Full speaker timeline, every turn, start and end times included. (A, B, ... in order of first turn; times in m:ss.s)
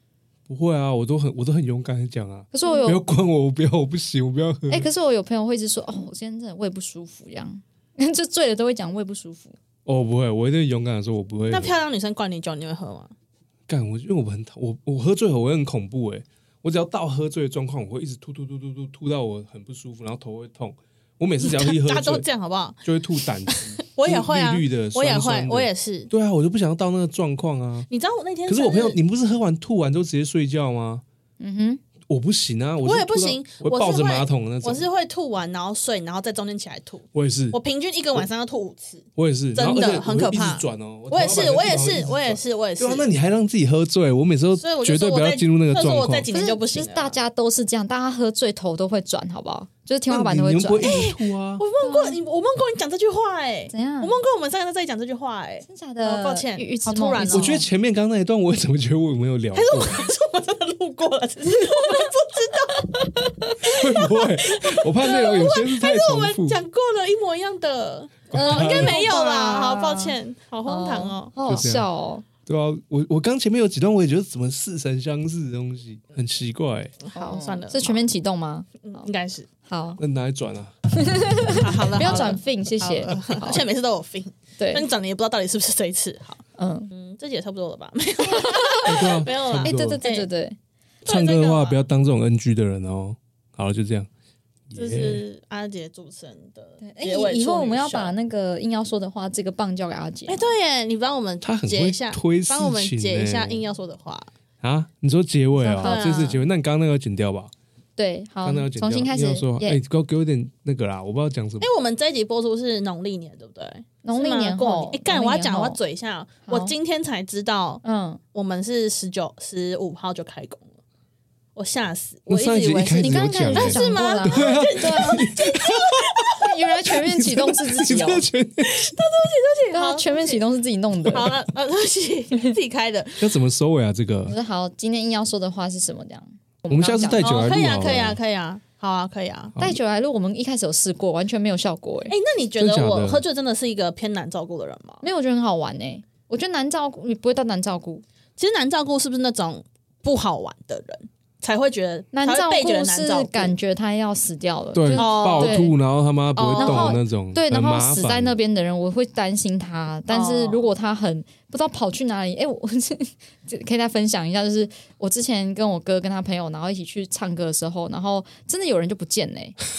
0:00.5-0:04.9 A
0:02.5-0:03.0 B
0:04.7-0:09.6 B
0:09.9-0:11.8 A
0:11.5-0:13.1 C
0:13.7-0:22.3 A
0:21.4-0:26.1 C
0:22.8-0:27.9 A
0:27.9-0:29.0 C
0:28.5-0:31.0 A
0:31.4-0:31.8 B
0:32.1-0:34.9 A
0:32.8-0:43.1 C
0:37.1-0:37.6 A
0:39.2-0:46.3 A
0:44.6-0:47.2 C
0:46.3-0:51.0 B
0:50.1-0:51.6 A
0:50.8-0:57.6 C
0:51.8-0:52.2 B
0:53.7-0:54.2 B
0:55.7-0:57.7 B
0:57.3-1:00.1 A
0:59.5-1:11.3 C
1:01.8-1:02.1 B
1:03.7-1:06.6 A
1:08.3-1:09.0 A
1:08.3-1:12.3 B
1:11.4-1:11.9 A
1:12.5-1:17.0 A
1:17.0-1:18.0 C
1:17.2-1:19.1 B
1:18.8-1:19.5 C
1:19.7-1:20.0 B
1:20.0-1:20.7 A
1:21.0-1:23.6 B
1:21.6-1:30.3 C
1:22.0-1:22.4 A
1:24.6-1:24.9 B
1:26.6-1:26.9 B
1:28.2-1:30.6 B
1:28.9-1:30.0 A
1:31.0-1:31.8 C
1:31.1-1:34.1 A
1:34.7-1:35.2 A
1:34.7-1:38.2 C
1:36.8-1:40.5 B
1:40.3-1:44.3 C
1:41.4-1:43.6 A
1:44.6-1:47.5 A
1:45.6-1:46.2 B
1:45.8-1:46.4 C
1:48.0-1:49.8 B
1:48.4-1:51.7 A
1:51.6-1:57.8 C
1:54.0-1:55.8 B
1:56.5-1:56.7 B
1:57.8-1:58.2 B
1:58.3-2:00.8 C
2:01.6-2:06.6 C
2:02.3-2:09.0 A
2:03.0-2:05.4 B
2:06.4-2:08.3 B
2:08.6-2:10.4 C
2:09.7-2:11.4 B
2:11.0-2:13.3 C
2:13.2-2:14.4 A
2:14.3-2:17.5 B
2:16.7-2:18.2 A
2:17.2-2:19.6 C
2:19.6-2:22.2 B
2:22.1-2:25.0 C
2:22.6-2:23.2 A
2:25.0-2:28.0 B
2:28.4-2:33.5 C
2:32.1-2:35.8 B
2:34.8-2:38.4 A
2:35.0-2:35.6 C
2:36.4-2:37.0 C
2:36.4-2:49.6 B
2:40.1-2:40.7 C